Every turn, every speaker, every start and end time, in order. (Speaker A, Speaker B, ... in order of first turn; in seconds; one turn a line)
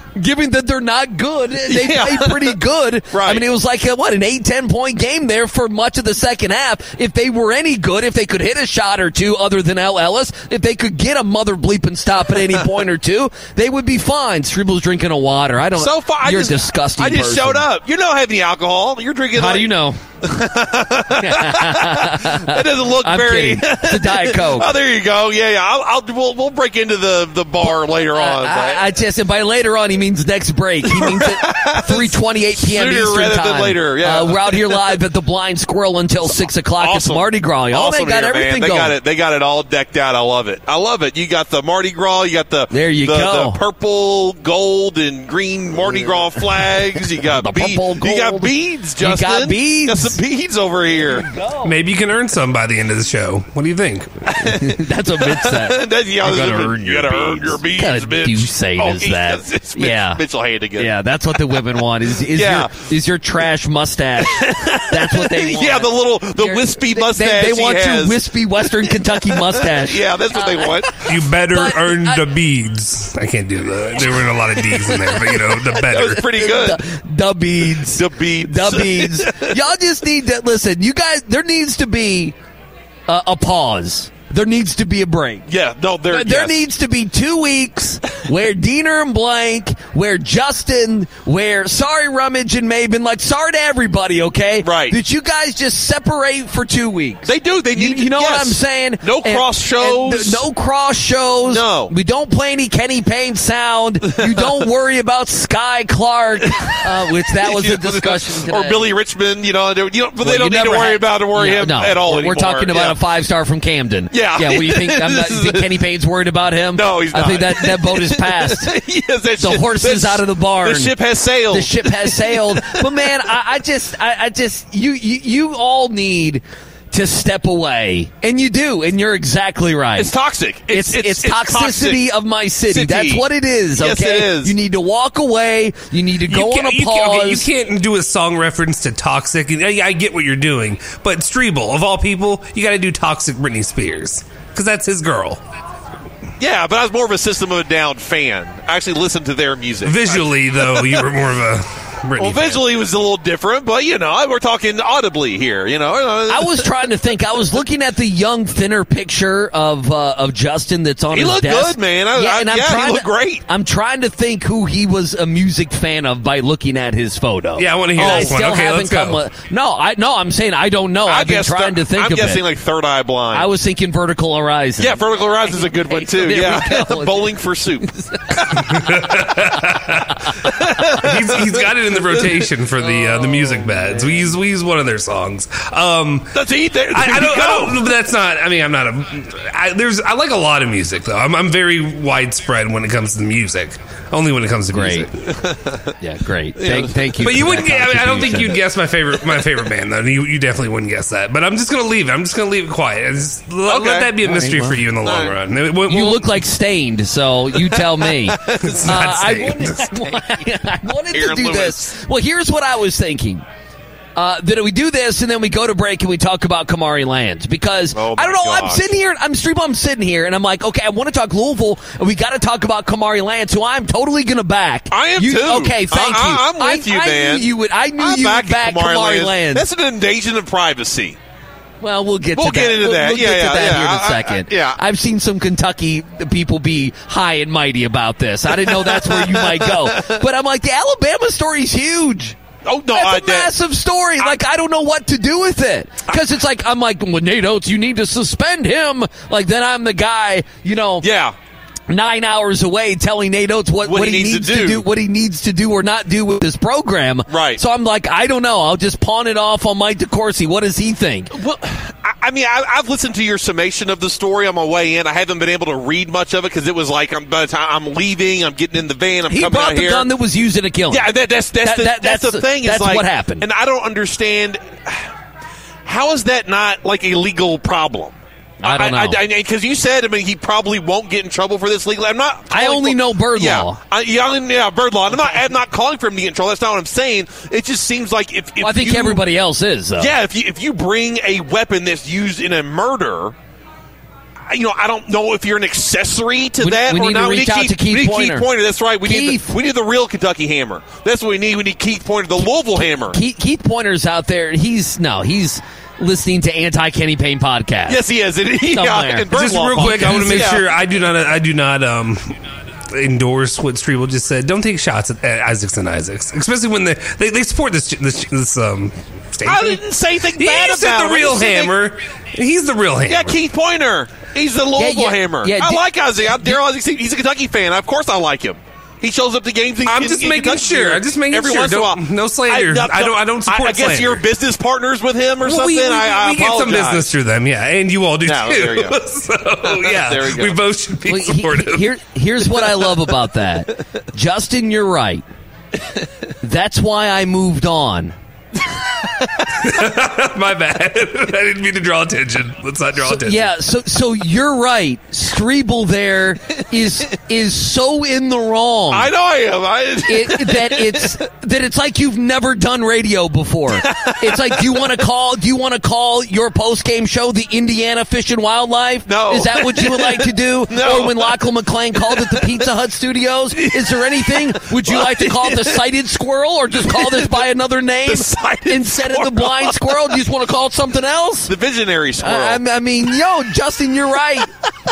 Speaker A: 0.2-17.6
Speaker B: 1.7-2.6
Speaker B: 3.1-3.5
Speaker B: 15.8-28.9
Speaker A: 19.4-20.0
Speaker A: 21.2-24.7
Speaker A: 27.6-39.0
Speaker B: 30.9-35.0
Speaker B: 36.3-51.3
Speaker A: 42.7-43.6
Speaker A: 45.8-46.7
Speaker A: 47.3-50.2
Speaker A: 51.0-51.7
Speaker C: 51.6-54.1
Speaker A: 54.5-60.2
Speaker B: 55.2-60.9
Speaker A: 60.8-70.9
Speaker B: 61.5-62.8
Speaker B: 64.3-71.0
Speaker C: 71.0-76.2
Speaker A: 71.5-72.2
Speaker B: 74.7-76.8
Speaker A: 76.2-82.3
Speaker B: 77.9-79.5
Speaker A: 83.1-85.5
Speaker B: 85.5-86.6
Speaker A: 86.1-108.9
Speaker B: 94.6-95.0
Speaker B: 97.2-100.4
Speaker B: 101.5-101.9
Speaker B: 104.2-104.6
Speaker B: 106.5-113.0
Speaker A: 110.2-118.7
Speaker B: 114.1-115.8
Speaker B: 116.8-123.1
Speaker A: 119.4-121.0
Speaker A: 121.5-130.1
Speaker B: 130.0-132.1
Speaker A: 130.7-137.5
Speaker B: 132.7-133.2
Speaker B: 133.8-134.5
Speaker C: 136.3-145.4
Speaker B: 146.4-151.0
Speaker C: 149.8-152.6
Speaker B: 152.2-156.9
Speaker A: 156.3-172.4
Speaker B: 161.1-163.4
Speaker C: 167.6-169.2
Speaker B: 168.0-168.4
Speaker B: 171.0-173.5
Speaker A: 173.3-177.3
Speaker B: 174.8-177.9
Speaker A: 177.9-178.5
Speaker C: 178.5-180.2
Speaker B: 180.5-182.3
Speaker C: 181.0-186.3
Speaker B: 186.3-187.9
Speaker C: 186.9-195.1
Speaker A: 194.7-195.1
Speaker B: 195.3-195.8
Speaker A: 196.0-198.6
Speaker B: 196.6-197.5
Speaker C: 197.2-206.3
Speaker B: 203.7-204.1
Speaker A: 204.2-204.8
Speaker B: 205.0-205.3
Speaker A: 205.9-213.4
Speaker B: 207.6-209.2
Speaker C: 208.6-209.8
Speaker B: 211.1-211.9
Speaker A: 214.2-229.6
Speaker B: 217.9-218.9
Speaker B: 224.9-231.2
Speaker A: 231.8-242.4
Speaker B: 232.4-234.8
Speaker B: 238.5-240.2
Speaker B: 242.6-243.5
Speaker A: 242.9-251.1
Speaker B: 251.0-251.3
Speaker A: 251.9-261.3
Speaker B: 253.8-254.8
Speaker B: 257.3-257.6
Speaker B: 261.3-270.1
Speaker A: 269.3-271.1
Speaker B: 270.9-275.1
Speaker A: 271.6-273.5
Speaker B: 275.8-289.2
Speaker A: 278.6-279.2
Speaker A: 282.5-283.8
Speaker A: 288.6-290.1
Speaker B: 290.0-293.3
Speaker B: 294.5-303.2
Speaker A: 296.6-298.5
Speaker A: 299.0-299.5
Speaker A: 303.1-308.0
Speaker B: 307.9-310.7
Speaker A: 308.7-310.5
Speaker C: 309.3-312.3
Speaker C: 312.9-319.8
Speaker B: 319.4-321.8
Speaker C: 320.4-323.4
Speaker B: 323.1-337.1
Speaker A: 324.8-326.6
Speaker C: 329.9-334.2
Speaker C: 335.4-341.9
Speaker B: 338.2-339.0
Speaker B: 339.6-340.6
Speaker A: 341.1-345.2
Speaker A: 346.4-348.1
Speaker C: 349.6-353.5
Speaker A: 353.0-359.1
Speaker B: 358.9-361.2
Speaker A: 360.1-381.5
Speaker B: 363.8-365.0
Speaker B: 369.1-371.4
Speaker B: 372.0-372.6
Speaker B: 373.6-375.8
Speaker B: 376.8-377.5
Speaker B: 378.1-380.2
Speaker B: 381.5-382.6
Speaker A: 382.2-384.5